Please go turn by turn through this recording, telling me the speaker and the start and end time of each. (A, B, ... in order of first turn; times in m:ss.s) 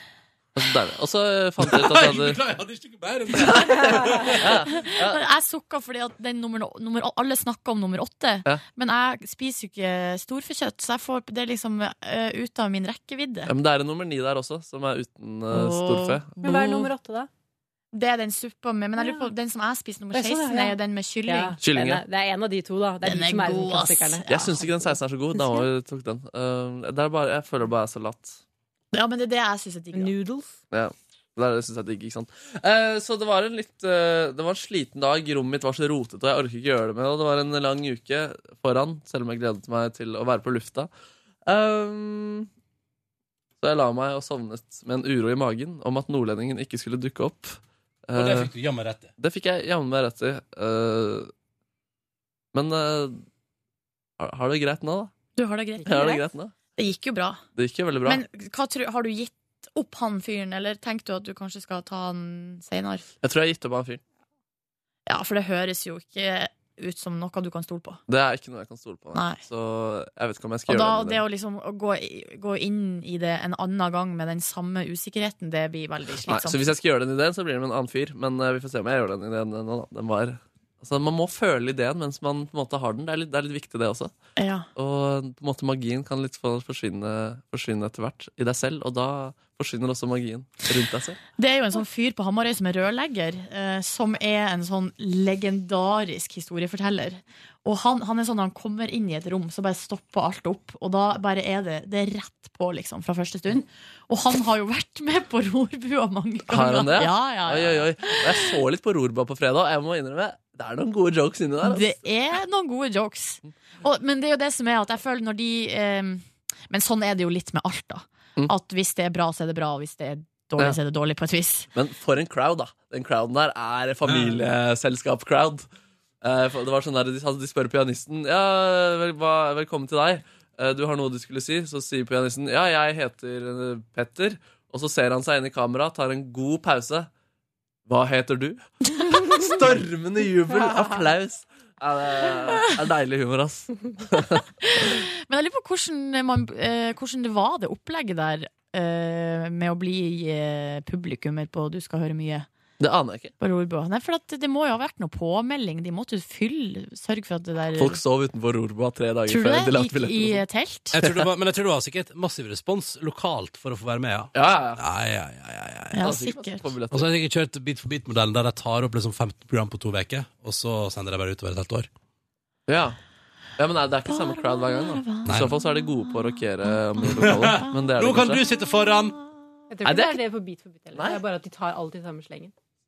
0:00.5-0:02.4 A
0:01.6-0:04.6 B
0:03.4-0:05.2 A
0:04.7-0:13.5 C
0:13.5-0:16.6 A
0:15.5-0:16.9 C
0:16.4-0:17.3 D
0:17.9-0:21.6 C
0:20.1-0:24.7 D
0:21.6-0:22.0 A
0:23.0-0:24.6 C
0:24.3-0:28.4 A
0:28.9-0:30.1 C
0:29.9-0:30.6 D
0:30.7-0:40.9 A
0:41.4-0:42.5 A
0:43.6-0:48.5 A
0:48.1-0:49.1 B
0:49.2-0:51.3 A
0:52.5-0:53.2 A
0:54.2-0:55.1 A
0:55.4-0:56.2 C
0:55.8-0:56.5 A
0:55.9-0:56.2 D
0:56.8-0:57.4 C
0:57.6-0:58.2 A
0:58.0-1:03.0 C
1:03.2-1:04.0 A
1:05.1-1:08.0 C
1:08.1-1:11.2 A
1:09.1-1:09.4 C
1:10.7-1:16.7 C
1:16.3-1:24.1 A
1:24.4-1:24.7 C
1:24.8-1:31.2 A
1:31.4-1:48.5 C
1:46.5-1:52.0 A
1:51.6-2:01.7 C
2:01.7-2:05.7 A
2:04.0-2:04.4 B
2:06.2-2:17.1 A
2:17.9-2:24.4 A
2:20.5-2:21.0 D
2:24.6-2:32.5 C
2:32.8-2:33.3 A
2:33.4-2:38.0 C
2:37.8-2:40.4 A
2:39.3-2:40.9 C
2:40.9-2:46.1 B
2:44.3-2:44.8 A
2:45.9-2:46.7 C
2:46.0-2:47.1 A
2:46.9-2:51.9 B
2:52.7-2:53.0 A
2:53.6-2:58.4 A
2:54.1-2:56.2 C
2:55.2-2:55.5 B
2:57.0-2:59.2 B
2:59.7-3:02.5 D
2:59.8-3:00.2 A
3:00.9-3:01.2 A